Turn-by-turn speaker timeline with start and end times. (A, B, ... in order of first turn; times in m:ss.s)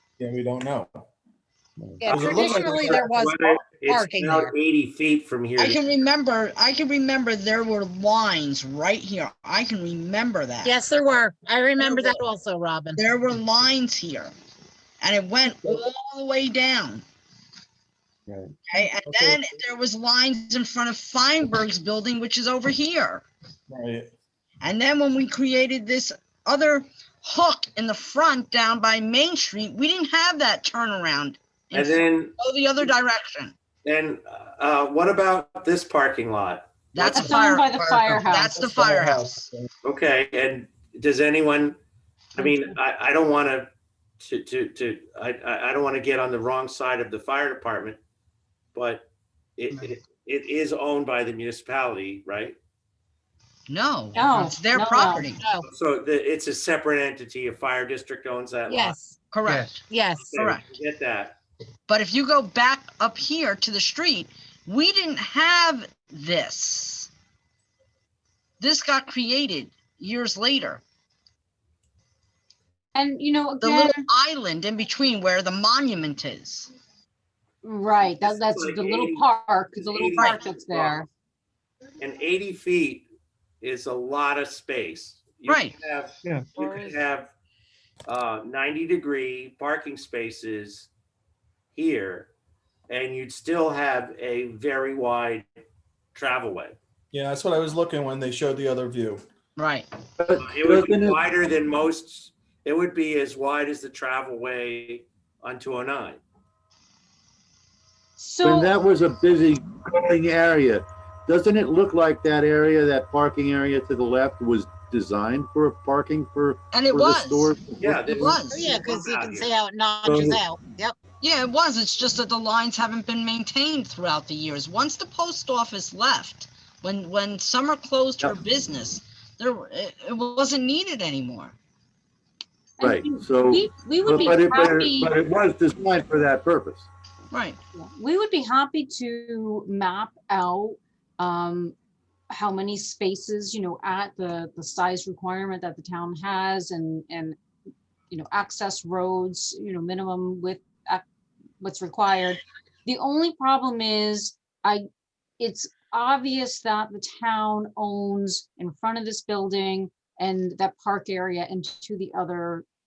0:00.2-0:01.1 A
0:02.0-0:04.5 B
0:02.0-0:03.3 A
0:02.1-0:05.8 C
0:05.6-0:10.8 D
0:10.6-0:13.0 B
0:11.8-0:12.2 D
0:13.0-0:14.3 D
0:15.0-0:17.0 D
0:18.7-0:23.2 D
0:19.1-0:19.5 A
0:23.7-0:24.1 A
0:24.6-0:33.6 D
0:31.7-0:32.3 C
0:33.8-0:37.2 C
0:36.9-0:39.5 D
0:37.0-0:38.6 E
0:38.6-0:39.7 A
0:39.8-0:41.8 C
0:42.4-0:48.0 C
0:48.8-0:52.6 C
0:53.7-0:55.4 D
0:54.2-0:55.2 E
0:55.2-0:55.6 B
0:55.7-0:59.0 C
0:58.7-0:59.2 B
0:59.3-0:59.8 D
0:59.9-1:00.3 B
1:00.2-1:01.4 C
1:00.3-1:00.6 D
1:01.9-1:07.1 D
1:08.6-1:10.8 D
1:12.9-1:14.0 E
1:13.6-1:16.7 D
1:17.6-1:21.1 E
1:18.0-1:21.0 C
1:22.0-1:23.1 C
1:23.6-1:27.3 C
1:25.5-1:25.7 D
1:28.1-1:30.9 C
1:31.8-1:32.3 C
1:32.9-1:35.5 C
1:36.2-1:36.8 C
1:37.1-1:39.2 A
1:39.6-1:39.9 D
1:40.2-1:41.2 F
1:40.4-1:46.2 C
1:48.2-1:48.8 E
1:48.4-1:58.4 F
1:56.7-1:57.5 D
1:57.8-1:59.5 C
1:58.1-1:58.7 D
1:58.5-2:01.0 B
2:00.1-2:00.4 C
2:01.2-2:11.6 D
2:12.8-2:15.1 E
2:12.8-2:16.9 F
2:17.3-2:17.6 D
2:17.8-2:21.8 E
2:22.3-2:27.4 E
2:28.1-2:31.0 E
2:31.6-2:34.8 E
2:35.4-2:42.7 E